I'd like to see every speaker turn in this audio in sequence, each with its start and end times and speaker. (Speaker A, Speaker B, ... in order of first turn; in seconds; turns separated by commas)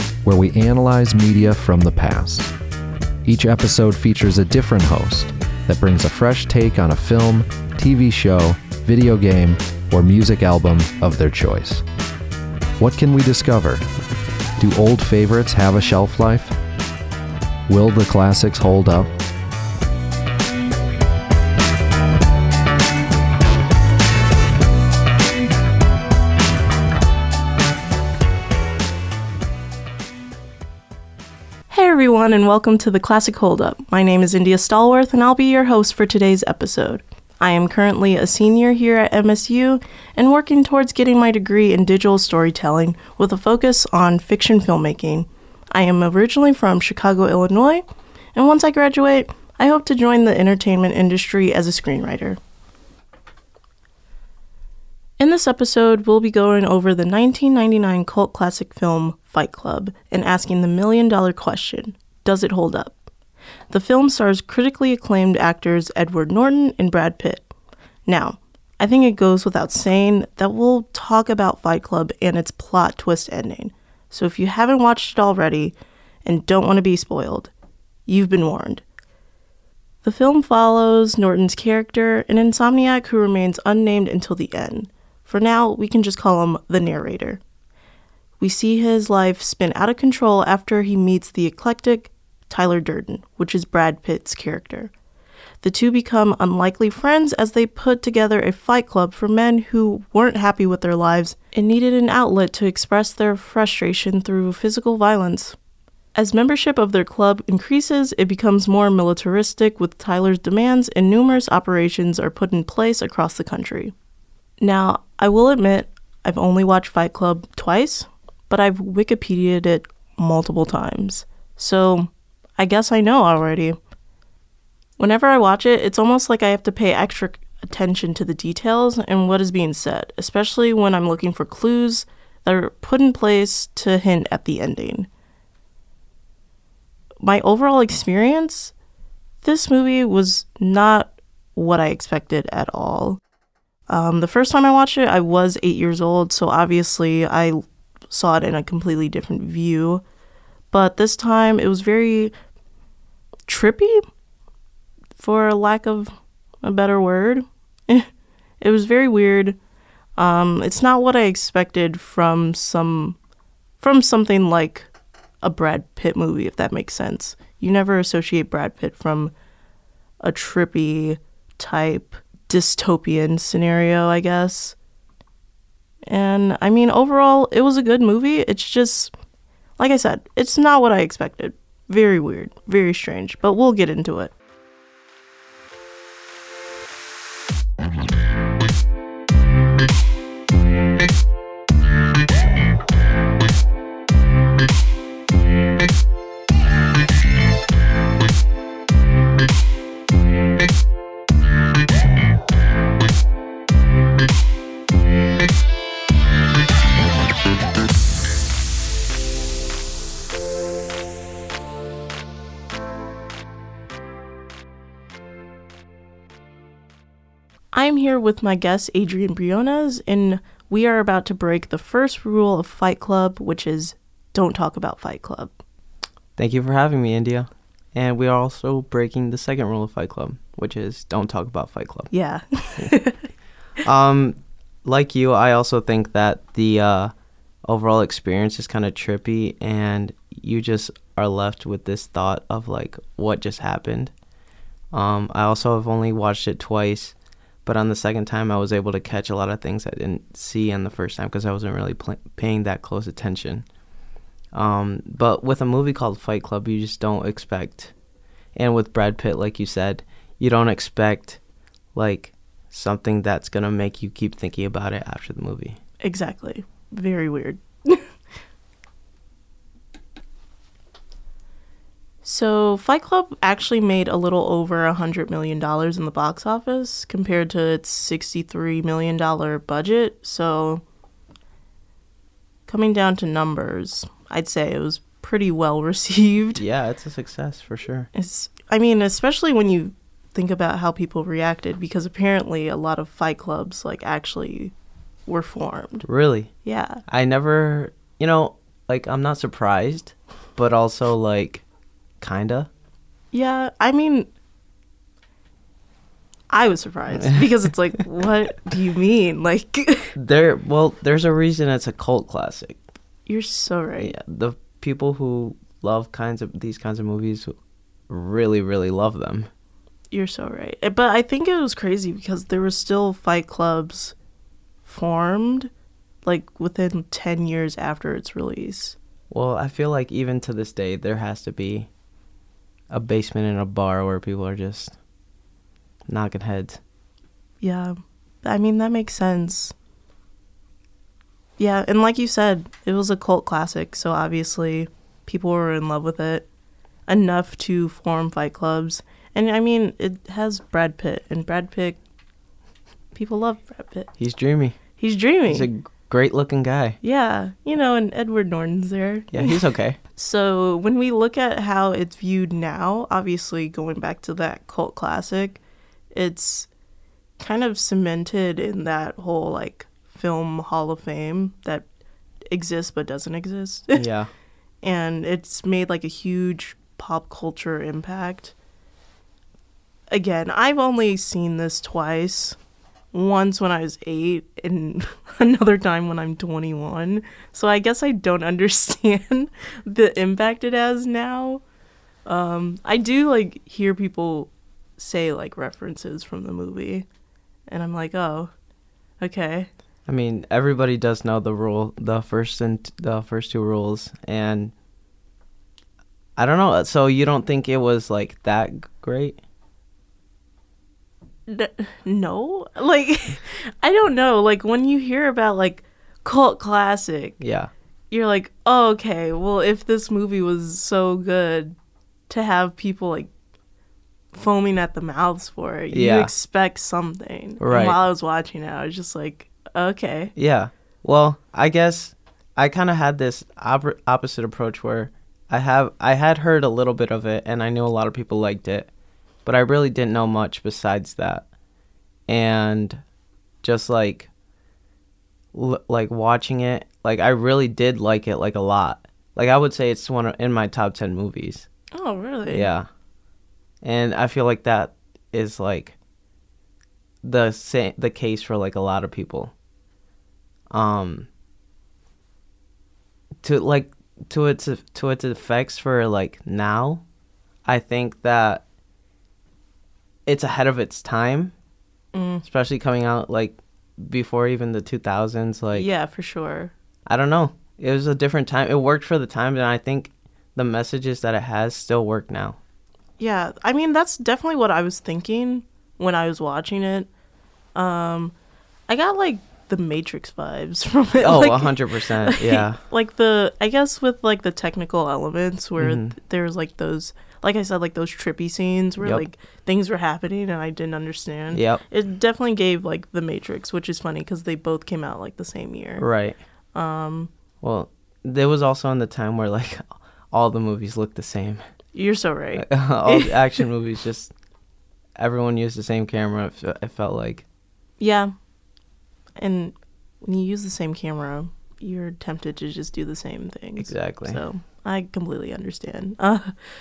Speaker A: 0.2-2.5, Speaker A: 3.2-11.8, Speaker A: 12.8-13.8, Speaker A: 14.6-16.6, Speaker A: 17.7-19.1, Speaker B: 31.7-47.8, Speaker B: 48.4-52.4, Speaker B: 55.2-63.0, Speaker B: 63.7-67.5, Speaker B: 68.1-77.5, Speaker B: 78.1-78.8, Speaker B: 80.0-87.4, Speaker B: 88.4-94.9, Speaker B: 95.6-105.6, Speaker B: 106.2-113.9, Speaker B: 114.6-123.8, Speaker B: 125.0-135.1, Speaker B: 137.2-138.7, Speaker B: 139.4-143.2, Speaker B: 143.9-150.0, Speaker B: 150.7-152.3, Speaker B: 153.5-154.1, Speaker B: 155.2-158.1, Speaker B: 158.6-159.6, Speaker B: 160.2-163.2, Speaker B: 163.8-164.9, Speaker B: 165.4-169.3, Speaker B: 170.2-174.8, Speaker B: 176.1-179.1, Speaker B: 179.8-184.3, Speaker B: 217.7-225.5, Speaker C: 226.4-232.1, Speaker B: 232.1-233.2, Speaker C: 233.8-237.1, Speaker C: 237.7-244.1, Speaker C: 244.9-253.7, Speaker C: 254.5-257.9, Speaker C: 258.6-261.4, Speaker C: 261.9-265.8, Speaker B: 266.0-268.1, Speaker B: 272.2-280.8, Speaker B: 282.7-286.6, Speaker C: 286.6-288.1, Speaker B: 288.1-294.7, Speaker B: 295.3-296.1, Speaker C: 296.1-296.5, Speaker B: 296.6-297.0, Speaker C: 297.1-301.6, Speaker C: 302.2-302.7, Speaker B: 303.3-304.3, Speaker B: 306.5-310.1, Speaker C: 307.2-307.5, Speaker C: 310.2-312.8, Speaker B: 313.3-314.1, Speaker C: 314.0-317.5, Speaker C: 318.1-319.5, Speaker B: 320.1-324.1, Speaker B: 324.9-325.7, Speaker B: 326.2-329.0, Speaker C: 329.3-331.9, Speaker C: 332.9-334.9, Speaker C: 336.1-336.8, Speaker B: 337.6-339.7, Speaker B: 341.6-346.5, Speaker B: 347.1-352.0, Speaker B: 353.1-354.1, Speaker C: 354.2-354.8, Speaker B: 355.0-355.7, Speaker C: 355.5-357.0, Speaker B: 357.0-359.6, Speaker C: 359.3-360.0, Speaker B: 360.1-365.6, Speaker B: 366.1-366.7, Speaker B: 367.4-371.9, Speaker B: 372.5-374.1, Speaker C: 373.9-374.3, Speaker B: 374.8-378.5, Speaker B: 380.1-382.6, Speaker B: 383.1-391.6, Speaker B: 392.3-397.1, Speaker B: 397.7-398.5, Speaker B: 399.2-399.7, Speaker C: 400.1-404.7, Speaker C: 406.4-409.4, Speaker B: 411.5-417.4, Speaker C: 417.4-417.7, Speaker B: 418.1-421.8, Speaker B: 422.3-423.3, Speaker B: 424.3-430.3, Speaker C: 425.9-426.3, Speaker C: 427.6-428.0, Speaker C: 430.4-438.9, Speaker C: 439.4-441.5, Speaker C: 442.3-443.0, Speaker C: 443.6-444.3, Speaker C: 445.5-451.7, Speaker B: 451.9-452.7, Speaker C: 452.5-452.9, Speaker C: 453.8-455.9, Speaker C: 457.2-459.5, Speaker C: 460.7-461.3, Speaker C: 463.4-467.0, Speaker C: 467.7-468.6, Speaker C: 470.3-471.5, Speaker B: 472.1-472.4, Speaker C: 472.4-475.9, Speaker B: 475.7-476.7, Speaker C: 477.1-482.6, Speaker B: 483.2-487.1, Speaker B: 487.8-488.3, Speaker B: 488.9-506.1, Speaker C: 491.2-492.8, Speaker C: 495.8-496.1, Speaker C: 501.5-501.8, Speaker C: 506.0-506.4, Speaker B: 506.8-507.3, Speaker C: 507.6-511.6, Speaker B: 511.9-513.6, Speaker C: 512.6-514.3, Speaker C: 515.2-517.4, Speaker B: 518.0-518.3, Speaker B: 519.4-526.5, Speaker C: 523.8-524.4